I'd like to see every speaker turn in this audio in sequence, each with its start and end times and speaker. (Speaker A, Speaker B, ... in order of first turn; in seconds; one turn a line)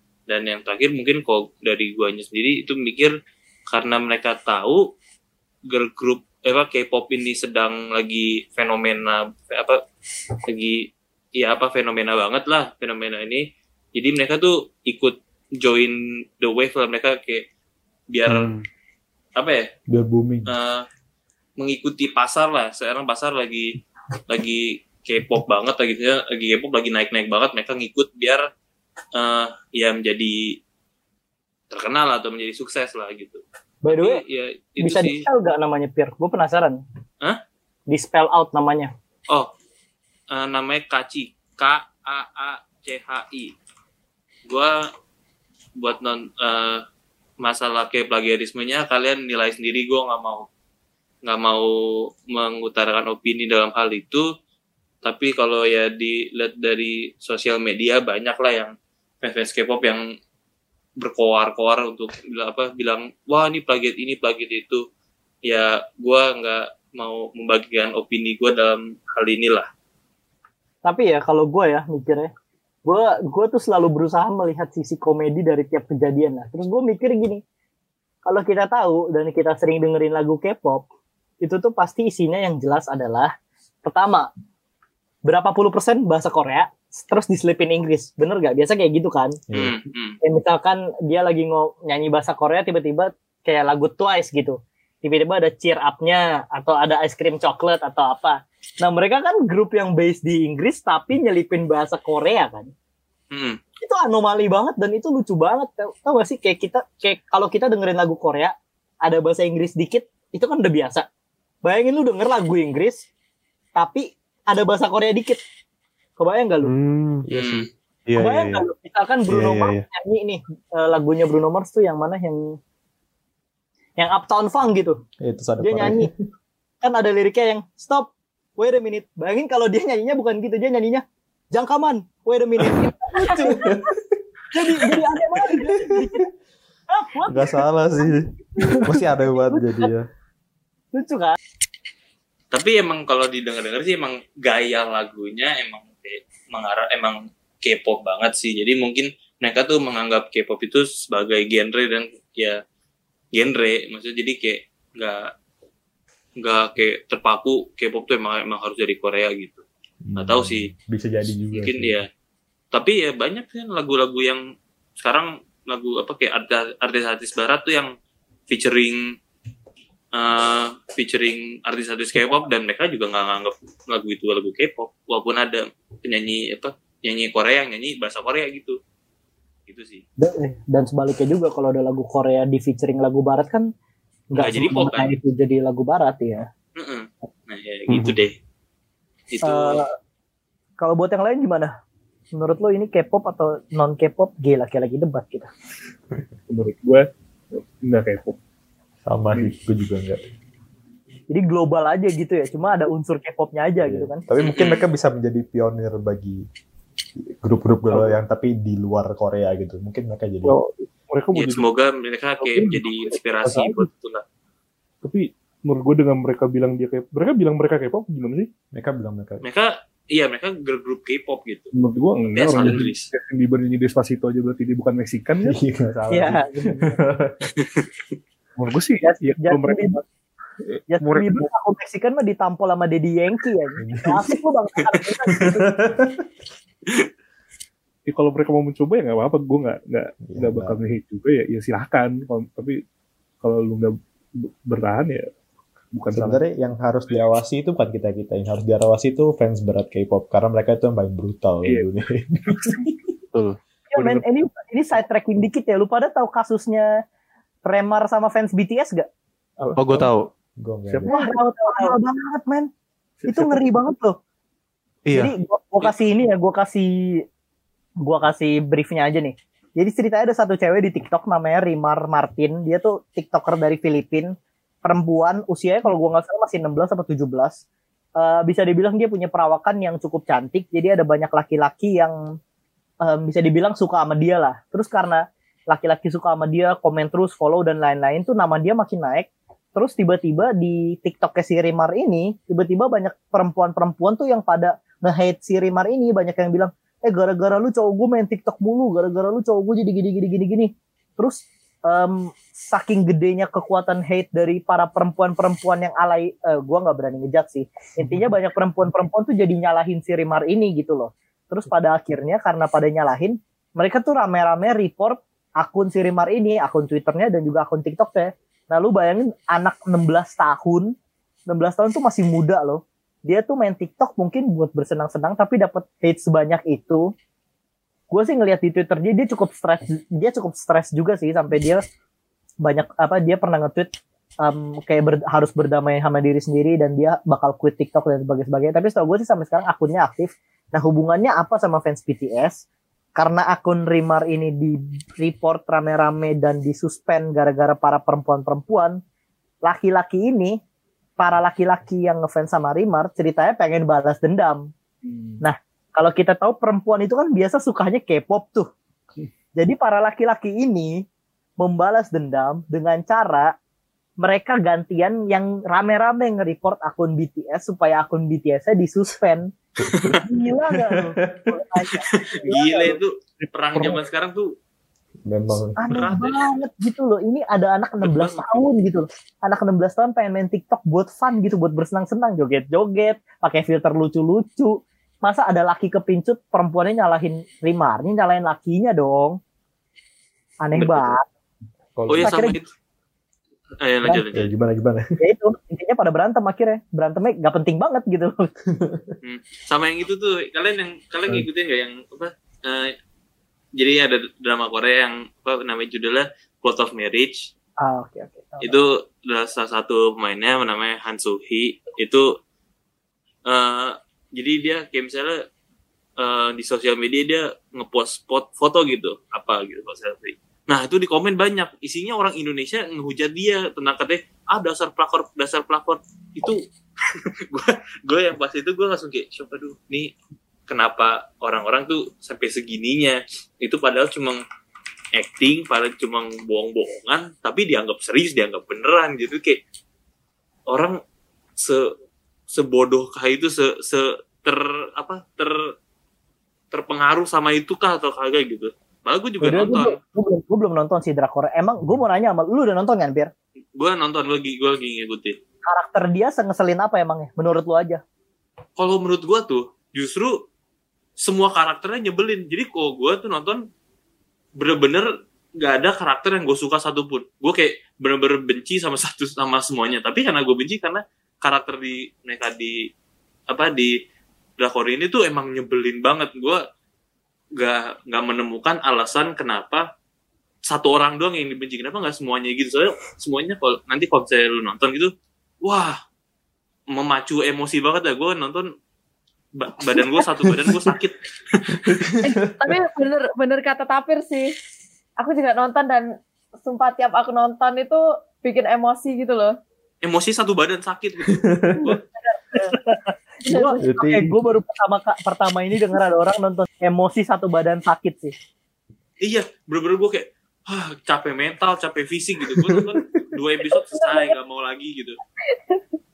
Speaker A: 0.3-3.1
Speaker A: 3.7-4.9
Speaker A: 5.7-9.8
Speaker A: 10.5-13.4
Speaker A: 13.9-17.4
Speaker A: 18.1-18.5
Speaker B: 18.3-18.6
Speaker A: 19.4-19.7
Speaker C: 19.9-20.5
Speaker A: 20.5-20.8
Speaker A: 21.6-23.7
Speaker A: 24.3-28.4
Speaker A: 29.1-30.6
Speaker A: 31.7-35.2
Speaker D: 33.8-34.2
Speaker D: 34.8-36.8
Speaker D: 37.9-38.9
Speaker A: 40.3-43.5
Speaker A: 44.5-44.7
Speaker A: 45.8-46.8
Speaker A: 47.4-50.5
Speaker A: 51.2-51.7
Speaker A: 52.3-54.3
Speaker A: 55.0-60.0
Speaker A: 61.0-64.8
Speaker A: 65.5-69.7
Speaker D: 70.8-72.3
Speaker D: 72.9-77.4
Speaker D: 78.2-80.8
Speaker D: 81.4-83.3
Speaker D: 83.8-84.3
Speaker D: 85.3-89.4
Speaker C: 89.5-89.8
Speaker A: 89.5-90.2
Speaker D: 90.2-102.7
Speaker A: 103.3-103.6
Speaker D: 103.8-111.0
Speaker D: 111.6-113.1
Speaker D: 113.8-115.4
Speaker D: 116.2-116.7
Speaker B: 116.6-117.3
Speaker C: 117.3-117.7
Speaker A: 117.3-117.7
Speaker B: 118.1-118.7
Speaker D: 118.2-122.6
Speaker B: 119.3-119.8
Speaker D: 124.0-125.0
Speaker C: 125.2-126.1
Speaker D: 125.6-126.1
Speaker D: 126.8-133.8
Speaker C: 133.2-134.2
Speaker D: 134.5-136.3
Speaker D: 136.9-139.9
Speaker C: 137.3-138.3
Speaker C: 138.8-140.1
Speaker D: 140.9-141.4
Speaker A: 142.5-152.6
Speaker A: 153.3-155.3
Speaker A: 156.4-159.6
Speaker C: 160.0-162.0
Speaker A: 160.2-160.7
Speaker A: 161.5-162.1
Speaker A: 162.7-164.4
Speaker A: 165.0-167.9
Speaker A: 168.5-169.0
Speaker A: 170.1-178.8
Speaker A: 179.7-180.0
Speaker D: 180.2-183.7
Speaker D: 184.3-186.5
Speaker A: 184.3-185.2
Speaker A: 186.8-188.4
Speaker B: 187.9-188.2
Speaker A: 189.3-189.8
Speaker D: 189.4-189.9
Speaker D: 190.8-191.7
Speaker D: 192.3-195.5
Speaker E: 196.5-198.4
Speaker C: 199.1-200.2
Speaker D: 201.3-204.2
Speaker C: 203.8-206.4
Speaker A: 204.4-204.8
Speaker C: 207.2-210.6
Speaker E: 207.9-208.2
Speaker E: 210.4-211.7
Speaker A: 211.3-214.2
Speaker E: 212.4-213.9
Speaker E: 215.0-218.5
Speaker C: 218.7-219.4
Speaker A: 219.4-221.7
Speaker E: 221.7-225.6
Speaker A: 222.3-223.1
Speaker C: 225.4-227.5
Speaker D: 226.1-226.9
Speaker E: 228.6-230.0
Speaker D: 229.0-230.0
Speaker E: 230.7-231.5
Speaker D: 230.9-235.8
Speaker C: 233.8-234.3
Speaker C: 235.3-236.2
Speaker E: 238.1-242.8
Speaker C: 240.3-240.8
Speaker E: 243.4-245.3
Speaker E: 245.9-246.4
Speaker C: 246.1-253.0
Speaker E: 251.7-251.9
Speaker E: 252.5-252.8
Speaker D: 253.9-256.9
Speaker E: 253.9-254.3
Speaker D: 257.6-259.1
Speaker E: 259.6-260.1
Speaker B: 259.8-260.3
Speaker C: 260.6-261.1
Speaker E: 260.9-261.4
Speaker D: 261.1-262.7
Speaker E: 263.2-263.7
Speaker D: 263.3-264.2
Speaker B: 265.1-265.3
Speaker D: 265.1-267.2
Speaker D: 268.0-277.6
Speaker D: 278.2-282.1
Speaker D: 283.0-320.9
Speaker D: 321.5-327.1
Speaker D: 328.1-331.8
Speaker D: 332.6-333.9
Speaker D: 334.4-342.6
Speaker D: 343.2-349.0
Speaker D: 349.6-350.6
Speaker D: 351.2-354.7
Speaker E: 355.0-355.4
Speaker D: 355.4-358.7
Speaker D: 359.6-361.1
Speaker D: 361.6-363.5
Speaker D: 364.2-369.5
Speaker A: 369.9-370.2
Speaker D: 370.1-373.0
Speaker C: 370.8-371.6
Speaker A: 372.1-374.5
Speaker C: 375.2-376.1
Speaker D: 375.8-389.4
Speaker A: 375.9-376.6
Speaker A: 378.0-378.6
Speaker D: 390.6-391.2
Speaker A: 390.8-391.1
Speaker C: 392.0-392.4
Speaker A: 392.1-392.7
Speaker D: 392.2-392.6
Speaker A: 393.8-394.5
Speaker C: 394.3-395.1
Speaker D: 395.2-398.5
Speaker C: 398.8-399.1
Speaker A: 399.2-402.9
Speaker A: 403.8-407.5
Speaker D: 407.8-408.8
Speaker A: 408.6-412.3
Speaker A: 413.5-415.4
Speaker A: 416.2-430.1
Speaker A: 430.7-434.4
Speaker A: 435.2-439.6
Speaker A: 440.7-441.0
Speaker A: 441.6-441.9
Speaker A: 442.5-445.6
Speaker A: 446.7-450.0
Speaker D: 449.4-453.3
Speaker A: 453.8-455.4
Speaker D: 455.7-458.0
Speaker A: 458.8-460.4
Speaker A: 461.2-463.6
Speaker A: 464.6-465.1
Speaker A: 465.6-472.8
Speaker A: 473.5-473.9
Speaker A: 474.6-476.6
Speaker A: 477.6-479.9
Speaker A: 480.7-486.0
Speaker A: 486.9-488.7
Speaker A: 489.6-492.1
Speaker C: 490.4-490.9
Speaker C: 491.8-492.8
Speaker F: 492.2-494.5
Speaker F: 495.2-496.1
Speaker F: 496.6-499.5
Speaker A: 500.0-502.0
Speaker C: 501.4-501.9
Speaker D: 502.6-508.3
Speaker F: 503.5-503.9
Speaker C: 503.8-504.4
Speaker A: 509.2-515.2
Speaker C: 512.5-513.1